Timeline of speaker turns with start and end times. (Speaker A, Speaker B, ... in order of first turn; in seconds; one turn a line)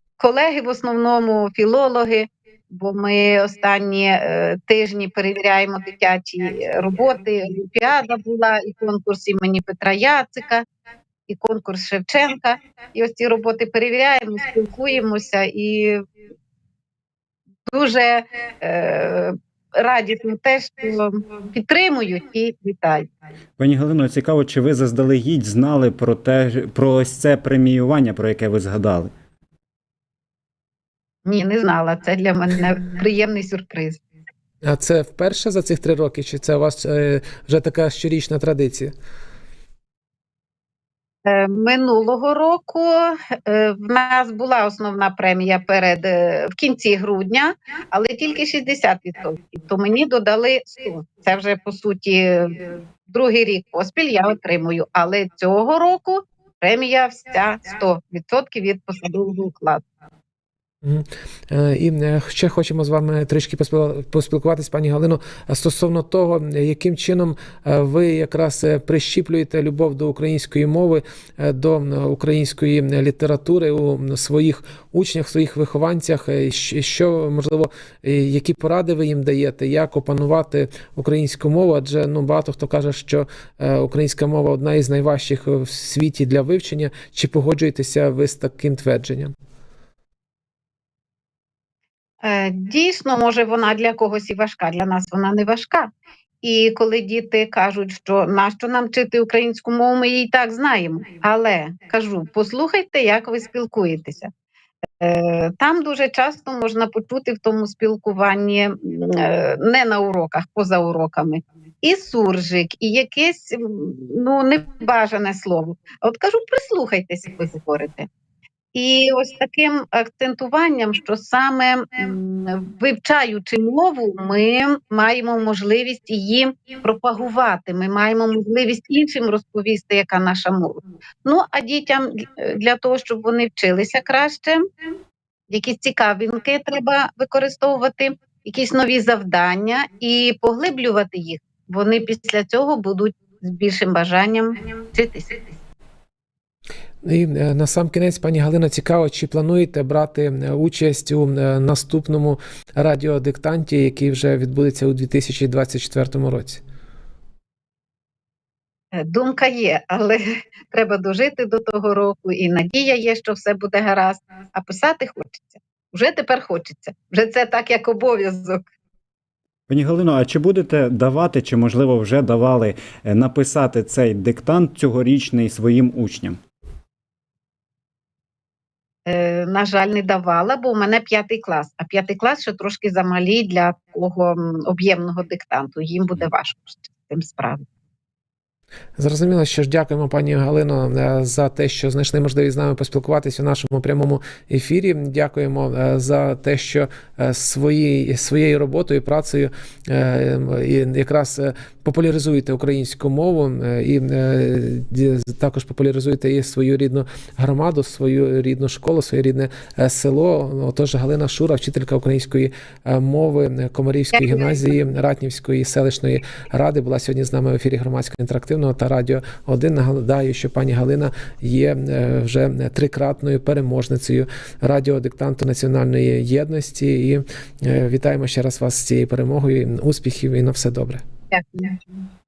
Speaker A: 0.2-10.7
Speaker A: 11.3-16.0
Speaker A: 17.7-23.1
Speaker B: 23.6-29.1
Speaker A: 31.2-34.0
Speaker C: 34.6-38.9
Speaker A: 41.2-59.8
Speaker C: 60.8-89.3
Speaker A: 92.2-95.9
Speaker A: 96.4-104.3
Speaker A: 105.0-118.1
Speaker A: 118.7-134.6
Speaker A: 135.5-145.5
Speaker C: 147.0-156.6
Speaker A: 158.9-168.7
Speaker B: 169.7-176.4
Speaker A: 179.1-187.6
Speaker C: 189.0-231.0
Speaker A: 214.1-214.5
Speaker A: 231.3-231.8